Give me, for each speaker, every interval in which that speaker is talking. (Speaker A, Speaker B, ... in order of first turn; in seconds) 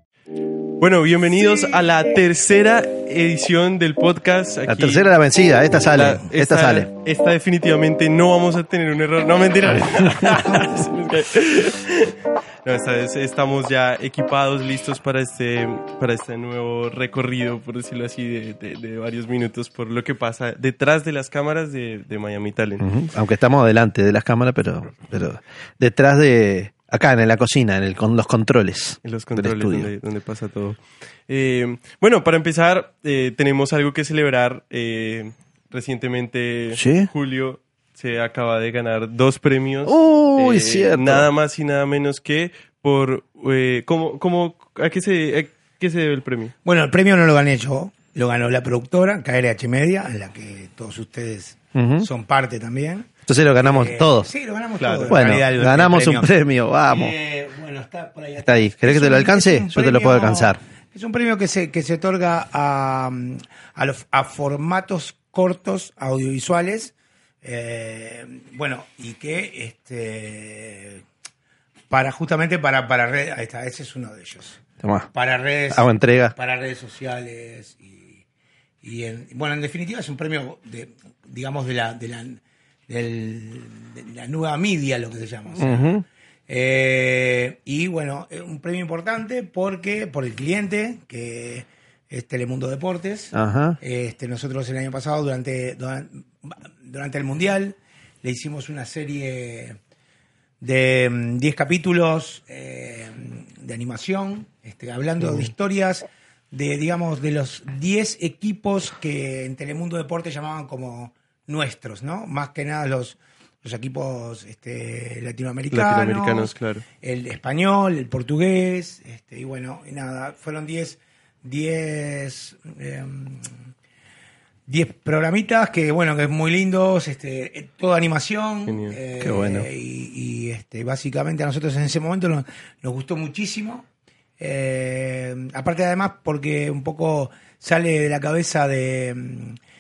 Speaker A: 0.8-5.1, 5.9-22.9, 29.0-46.5, 54.8-55.2, 115.7-116.8, 128.7-129.0
Speaker B: 4.7-6.9, 9.8-10.7, 22.8-29.9, 36.7-37.1, 39.9-41.3, 51.8-52.1, 53.3-54.3, 55.1-57.1, 58.5-60.6, 74.8-75.1, 75.7-76.3, 85.6-86.0, 93.3-93.8, 129.2-129.7
Speaker C: 46.6-56.3, 56.9-71.0, 71.9-78.2, 78.8-85.9, 86.5-99.8, 100.6-123.6, 124.7-133.9, 134.4-139.6